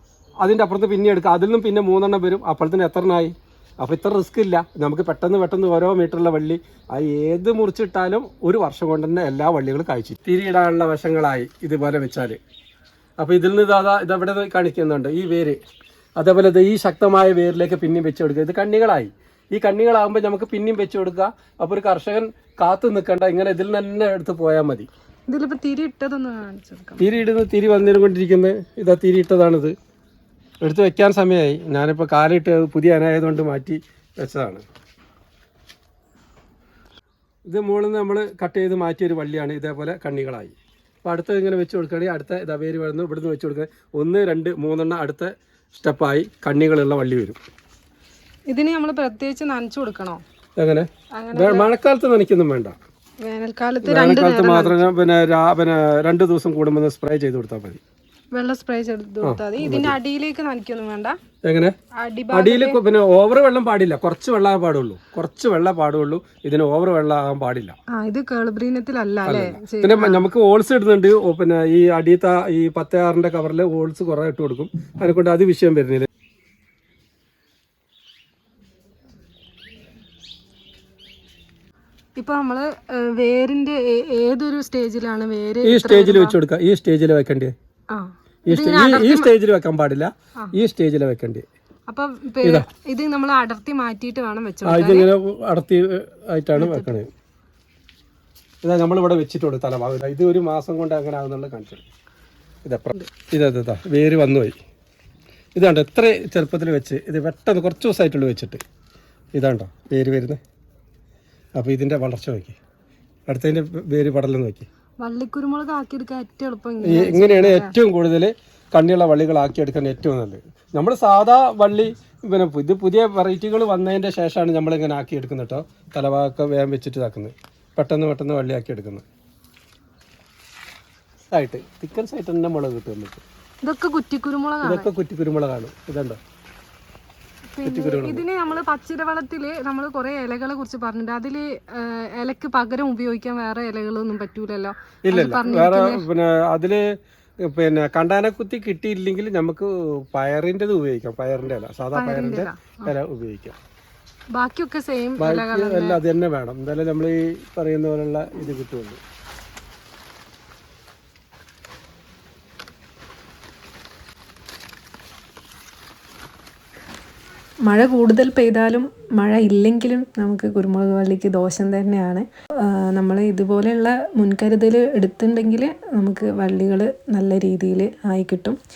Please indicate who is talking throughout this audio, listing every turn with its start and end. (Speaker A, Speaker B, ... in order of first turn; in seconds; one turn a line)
Speaker A: 0.4-12.4
Speaker A: 13.2-15.6
Speaker A: 16.2-24.9
Speaker B: 25.3-27.2
Speaker A: 27.0-29.7
Speaker A: 30.6-34.6
Speaker A: 37.5-47.4
Speaker B: 48.5-50.2
Speaker A: 50.6-52.8
Speaker B: 51.2-51.7
Speaker B: 53.2-54.9
Speaker A: 53.8-57.8
Speaker B: 58.3-61.2
Speaker A: 59.2-60.0
Speaker A: 61.4-61.7
Speaker B: 62.0-62.8
Speaker A: 62.3-67.8
Speaker B: 68.0-70.2
Speaker A: 69.3-76.1
Speaker B: 82.2-86.4
Speaker A: 85.6-87.5
Speaker B: 87.9-89.3
Speaker A: 88.5-91.5
Speaker B: 91.9-95.1
Speaker A: 92.4-92.7
Speaker A: 94.6-97.1
Speaker B: 96.6-96.9
Speaker A: 98.6-101.8
Speaker A: 102.7-104.6
Speaker A: 105.5-108.6
Speaker A: 109.4-110.4
Speaker A: 111.6-112.6
Speaker A: 113.3-114.7
Speaker B: 115.0-117.7
Speaker A: 116.8-129.0
Speaker A: 131.3-133.2
Speaker B: 133.6-134.9
Speaker A: 134.6-136.2
Speaker B: 137.6-146.0
Speaker A: 137.7-138.2
Speaker A: 145.1-153.6
Speaker B: 151.9-152.9
Speaker B: 154.3-156.0
Speaker A: 155.2-159.0
Speaker C: 167.7-178.6